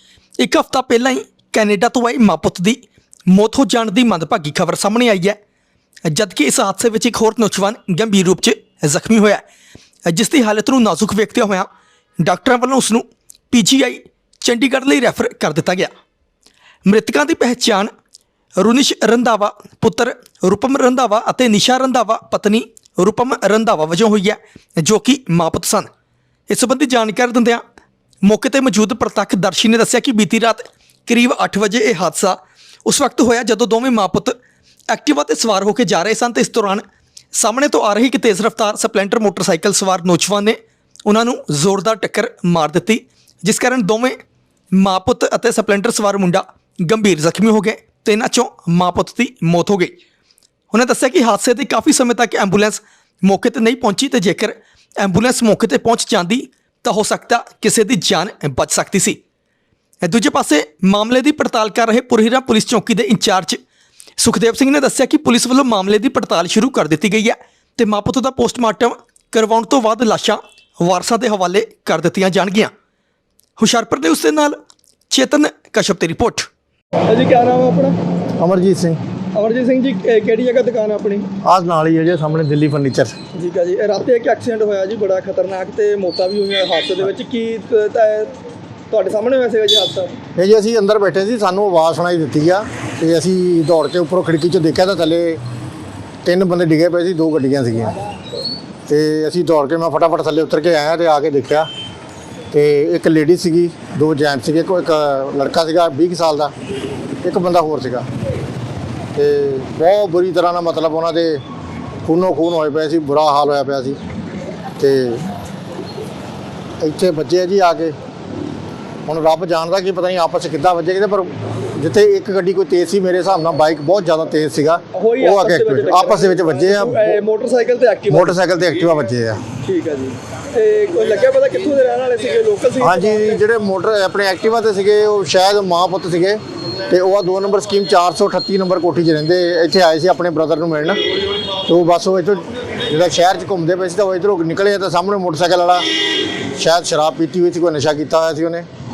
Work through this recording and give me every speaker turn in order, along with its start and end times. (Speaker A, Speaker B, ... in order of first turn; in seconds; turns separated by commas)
Speaker A: 0.4-5.4, Speaker A: 6.1-9.4, Speaker A: 10.1-11.7, Speaker A: 12.2-15.9, Speaker A: 16.9-17.9, Speaker A: 18.6-25.9, Speaker A: 26.5-27.6, Speaker A: 28.2-34.4, Speaker A: 34.9-36.8, Speaker A: 37.4-44.2, Speaker A: 44.7-50.0, Speaker A: 50.7-59.2, Speaker A: 60.0-63.6, Speaker A: 64.2-72.7, Speaker A: 73.6-74.6, Speaker A: 75.1-76.5, Speaker B: 77.1-78.0, Speaker C: 78.4-79.0, Speaker B: 79.3-81.3, Speaker C: 81.4-83.2, Speaker B: 83.3-88.3, Speaker B: 88.9-90.2, Speaker C: 90.4-95.4, Speaker C: 96.2-98.0, Speaker C: 98.9-101.7, Speaker C: 102.5-106.5, Speaker C: 107.2-108.1, Speaker C: 109.2-111.4, Speaker C: 112.0-114.0, Speaker C: 114.8-115.3, Speaker C: 116.8-118.0, Speaker C: 119.1-127.2, Speaker B: 124.9-128.4, Speaker C: 128.1-129.4, Speaker B: 129.6-133.3, Speaker C: 132.8-141.0, Speaker C: 141.6-145.9, Speaker C: 146.6-148.7